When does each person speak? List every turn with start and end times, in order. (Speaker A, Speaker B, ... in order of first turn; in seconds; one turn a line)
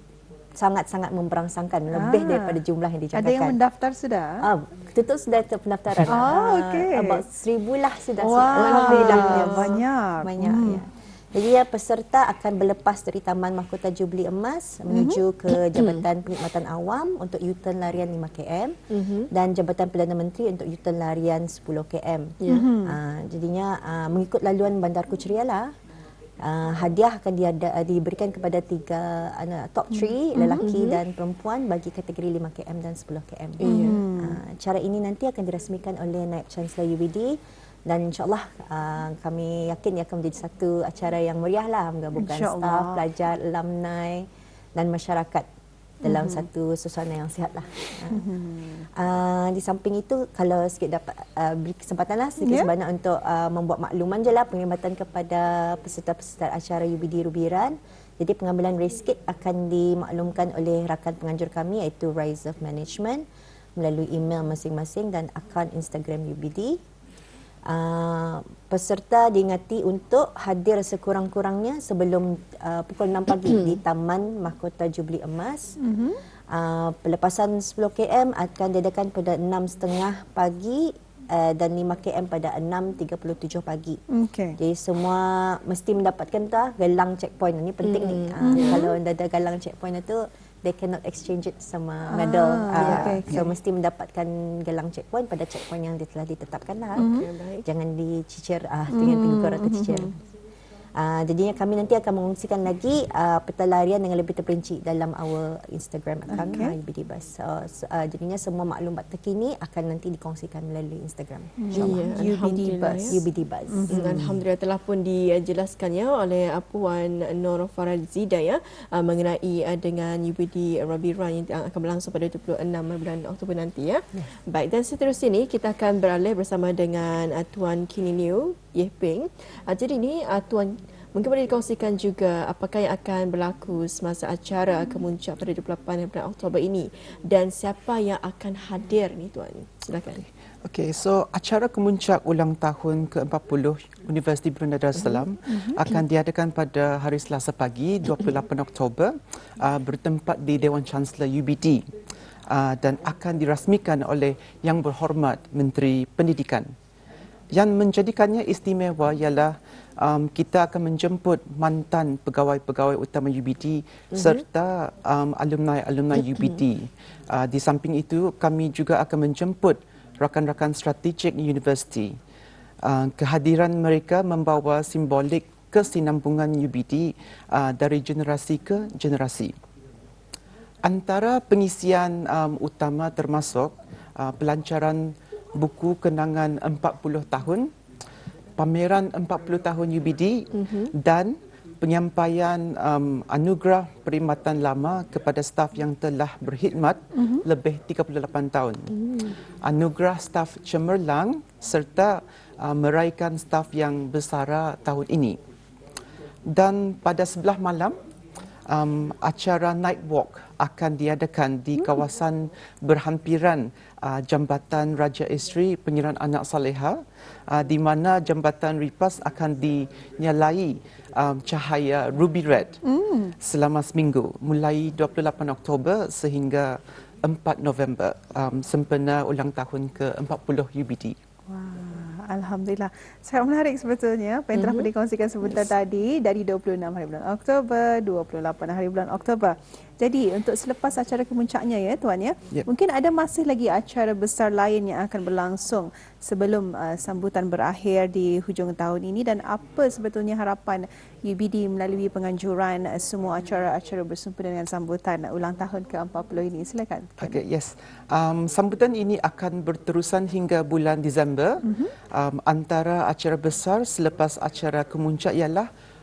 Speaker A: 0.6-3.6
Speaker B: 1.9-2.6
Speaker B: 3.1-4.4
Speaker A: 4.4-18.8
Speaker B: 6.1-7.2
Speaker B: 8.2-10.8
Speaker C: 8.6-9.7
Speaker B: 14.9-15.2
Speaker C: 15.8-16.0
Speaker C: 18.9-19.3
Speaker A: 19.3-25.7
Speaker C: 22.4-22.7
Speaker B: 22.5-23.0
Speaker A: 26.4-37.4
Speaker B: 29.9-30.6
Speaker C: 30.5-31.0
Speaker C: 33.6-34.0
Speaker B: 33.6-34.4
Speaker A: 37.9-45.5
Speaker B: 42.2-43.0
Speaker A: 46.0-48.2
Speaker B: 46.0-46.5
Speaker B: 48.1-48.8
Speaker A: 49.0-63.2
Speaker B: 52.4-52.7
Speaker A: 63.8-66.8
Speaker A: 67.7-75.8
Speaker B: 75.8-76.2
Speaker A: 76.5-84.0
Speaker B: 84.1-84.6
Speaker A: 84.6-97.1
Speaker C: 87.8-88.8
Speaker B: 88.5-88.9
Speaker B: 92.1-93.5
Speaker C: 92.8-93.2
Speaker C: 97.0-97.7
Speaker B: 97.0-97.3
Speaker A: 97.7-100.1
Speaker B: 98.9-100.1
Speaker A: 101.0-112.0
Speaker B: 106.3-106.8
Speaker B: 111.6-114.3
Speaker C: 111.7-113.2
Speaker A: 113.1-114.0
Speaker C: 113.9-140.3
Speaker D: 140.6-151.8
Speaker B: 145.5-145.8
Speaker D: 152.5-156.7
Speaker D: 157.5-172.2
Speaker C: 164.1-164.4
Speaker C: 166.2-166.6
Speaker D: 172.8-179.5
Speaker D: 180.8-187.7
Speaker D: 188.6-205.4
Speaker C: 190.5-190.9
Speaker B: 197.1-197.4
Speaker D: 206.5-208.0
Speaker D: 208.7-222.8
Speaker B: 222.8-223.3
Speaker D: 223.4-231.2
Speaker B: 231.5-257.4
Speaker C: 234.5-234.9
Speaker D: 257.2-265.7
Speaker B: 261.7-261.9